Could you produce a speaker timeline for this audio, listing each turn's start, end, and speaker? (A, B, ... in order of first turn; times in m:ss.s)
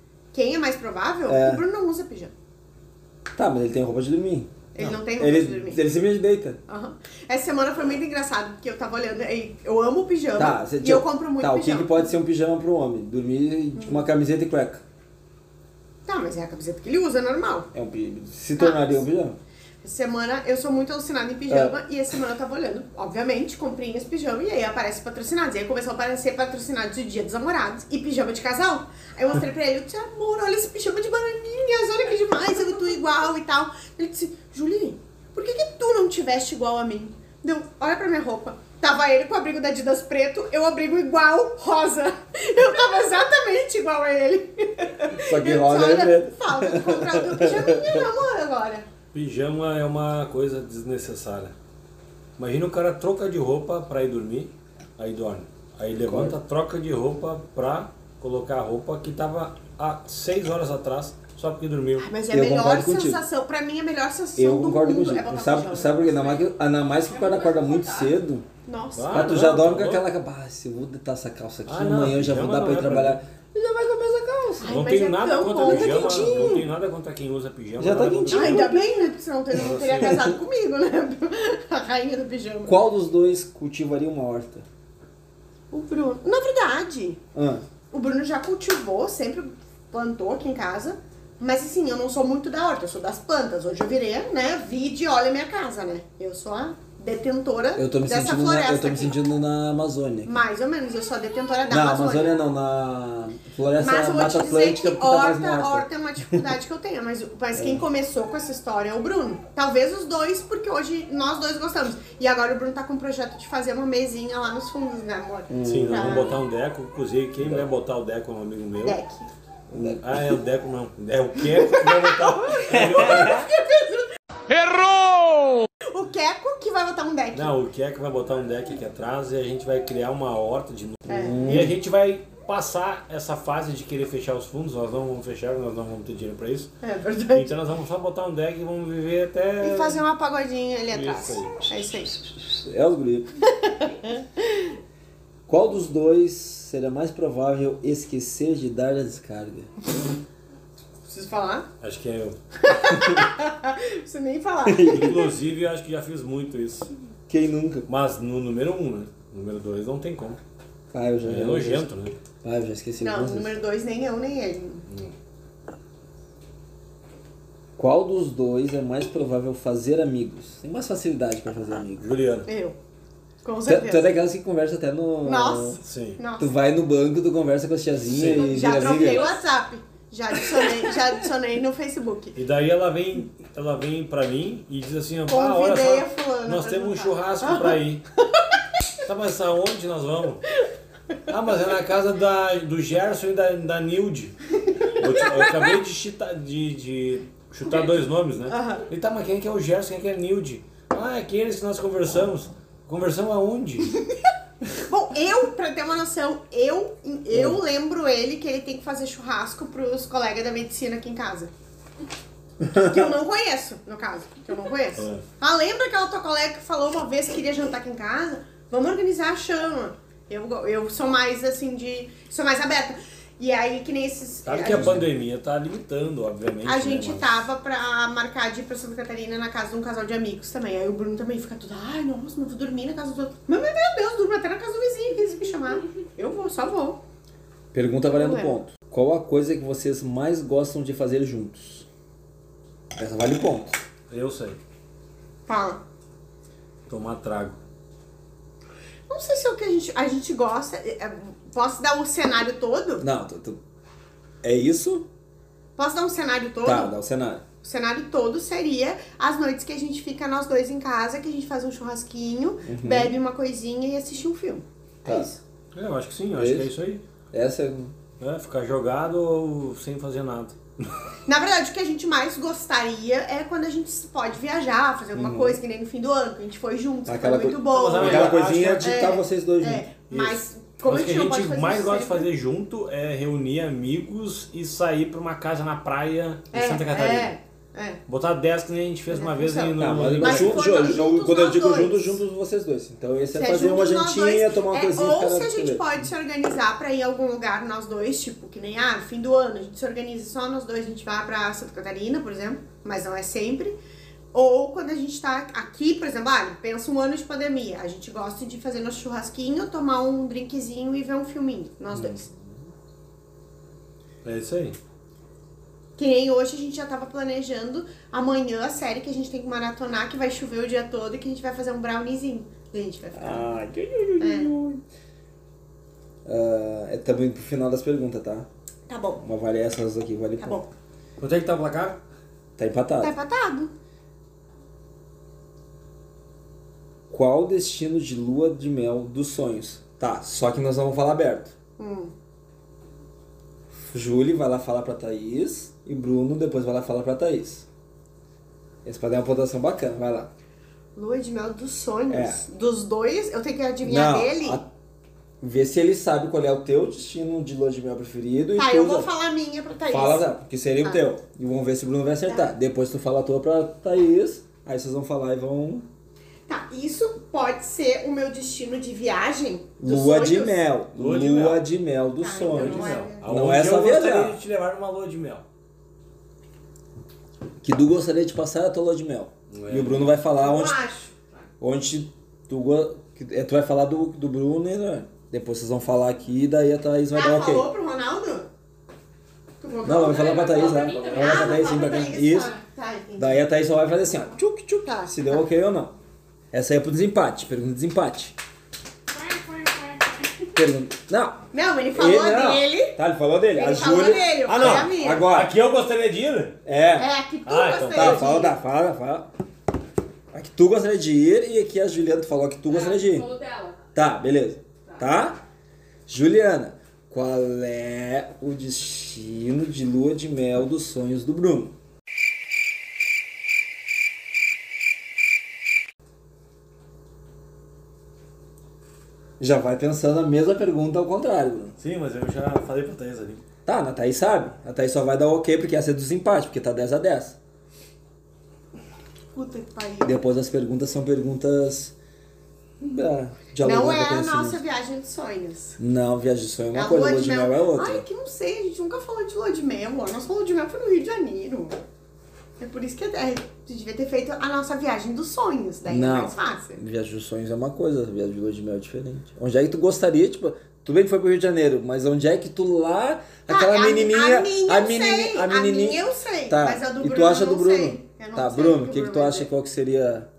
0:00.3-0:02.3 A
0:01.3-0:01.6 B
0:03.4-0:06.6 B
0:04.7-0:05.8 A
0:06.7-0:12.1 A
0:10.4-0:14.8 B
0:13.8-0:14.0 A
0:16.1-0:17.7 A
0:17.7-0:19.4 B
0:18.6-0:19.0 A
0:19.8-0:48.9 A
0:21.5-0:21.8 B
0:45.2-0:48.0 B
0:49.1-0:51.5 C
0:52.4-1:02.1 C
0:56.0-0:56.4 B
1:02.0-1:06.2 A
1:02.3-1:03.2 B
1:04.4-1:08.4 B
1:06.1-1:08.2 D
1:08.7-1:09.2 A
1:08.9-1:10.1 C
1:09.1-1:14.8 B
1:11.7-1:13.2 C
1:14.6-1:16.6 A
1:14.6-1:18.7 C
1:15.6-1:16.6 B
1:17.8-1:18.9 B
1:18.3-1:22.8 A
1:19.6-1:20.2 C
1:22.7-1:24.6 B
1:25.7-1:27.2 A
1:27.3-1:27.6 B
1:27.9-1:39.2 A
1:37.8-1:40.4 B
1:40.2-1:42.4 A
1:41.7-1:46.4 B
1:43.8-1:56.4 A
1:47.6-1:47.8 B
1:55.5-1:56.4 B
1:55.7-1:59.0 C
1:58.8-1:59.3 A
1:59.7-2:00.4 B
1:59.7-2:03.5 C
2:01.5-2:04.1 A
2:02.7-2:03.5 B
2:05.9-2:07.6 A
2:07.3-2:16.7 C
2:11.1-2:11.7 A
2:11.1-2:11.8 B
2:16.8-2:17.5 A
2:17.3-2:20.0 C
2:19.6-2:22.2 A
2:20.9-2:21.6 C
2:22.2-2:23.3 B
2:23.6-2:24.7 A
2:25.5-2:29.7 B
2:31.1-2:31.7 A
2:31.8-2:32.4 C
2:32.6-2:35.3 A
2:34.7-2:35.2 B
2:34.9-2:36.9 C
2:37.3-2:37.9 B
2:37.9-2:40.4 C
2:40.9-2:41.9 B
2:41.2-2:42.2 C
2:42.4-2:43.5 B
2:43.0-2:44.8 A
2:47.8-2:52.1 B
2:52.0-2:52.5 C
2:52.5-2:52.8 A
2:53.4-2:54.1 A
2:53.7-2:55.8 B
2:55.2-2:56.5 A
2:55.8-2:56.2 C
2:56.4-2:59.3 B
2:58.1-2:59.3 C
2:58.3-3:02.4 A
3:02.4-3:08.0 C
3:05.3-3:07.8 A
3:09.0-3:10.4 C
3:11.3-3:14.4 C
3:14.6-3:15.7 A
3:14.9-3:24.0 C
3:18.5-3:18.8 A
3:24.9-3:31.5 A
3:32.7-3:45.0 A
3:35.0-3:35.2 C
3:44.5-3:47.4 C
3:44.7-3:45.0 B
3:46.6-3:57.0 A
3:57.7-4:01.9 B
3:58.1-3:58.6 A
4:03.0-4:03.8 B
4:04.1-4:04.6 C
4:05.5-4:05.8 A
4:06.9-4:07.6 C
4:09.1-4:13.0 A
4:13.0-4:13.6 B
4:14.4-4:15.1 B
4:15.8-4:16.9 A
4:16.6-4:17.4 B
4:17.6-4:25.4 A
4:22.6-4:23.2 B
4:25.0-4:25.3 B
4:25.7-4:27.0 C
4:26.4-4:26.7 B
4:27.3-4:27.9 B
4:28.2-4:30.9 C
4:31.3-4:42.3 A
4:35.2-4:35.6 B
4:37.1-4:39.9 B
4:37.7-4:39.0 C
4:40.1-4:47.3 C
4:46.5-4:48.0 A
4:48.1-4:50.9 C
4:49.1-4:52.2 A
4:49.8-4:56.1 B
4:53.3-5:03.8 A
5:04.3-5:12.2 A
5:11.9-5:12.2 C
5:14.2-5:14.8 C
5:16.0-5:23.6 A
5:23.2-5:24.8 B
5:24.2-5:24.5 A
5:26.2-5:28.5 B
5:28.9-5:29.2 A
5:29.2-5:30.6 B
5:30.4-5:30.7 A
5:31.2-5:32.0 C
5:32.6-5:33.1 B
5:33.0-5:33.7 A
5:37.1-5:41.5 B
5:41.8-5:42.1 A
5:43.9-5:47.7 B
5:48.8-5:50.3 B
5:51.0-5:54.6 A
5:52.1-5:52.4 B
5:53.8-5:54.7 B
5:55.4-5:59.1 B
5:58.6-6:00.3 A
5:59.9-6:05.9 B
6:06.5-6:10.6 A
6:09.8-6:14.4 B
6:10.9-6:11.7 C
6:12.2-6:13.3 A
6:12.5-6:15.5 C
6:17.6-6:20.8 B
6:19.5-6:20.1 C
6:20.3-6:21.1 A
6:21.6-6:27.7 B
6:27.1-6:28.5 A
6:29.6-6:33.4 A
6:29.8-6:32.6 B
6:29.9-6:32.5 D
6:33.2-6:36.0 B
6:34.8-6:35.4 A
6:36.5-6:38.4 B
6:39.1-6:40.6 D
6:40.6-6:45.6 B
6:41.5-6:43.0 A
6:43.5-6:45.3 A
6:44.5-6:46.6 C
6:46.6-6:47.1 B
6:47.0-6:48.6 A
6:47.4-6:48.3 C
6:48.0-6:49.3 B
6:50.3-6:53.3 B
6:52.7-6:53.8 D
6:54.0-6:55.4 B
6:56.1-7:01.8 B
7:09.4-7:11.8 B
7:11.8-7:13.4 C
7:13.7-7:17.4 B
7:19.3-7:20.2 A
7:20.0-7:21.9 B
7:22.8-7:24.6 B
7:23.6-7:25.8 A
7:25.8-7:28.0 B
7:26.7-7:31.8 A
7:32.6-7:36.8 A
7:35.9-7:50.3 B
7:43.5-7:49.5 A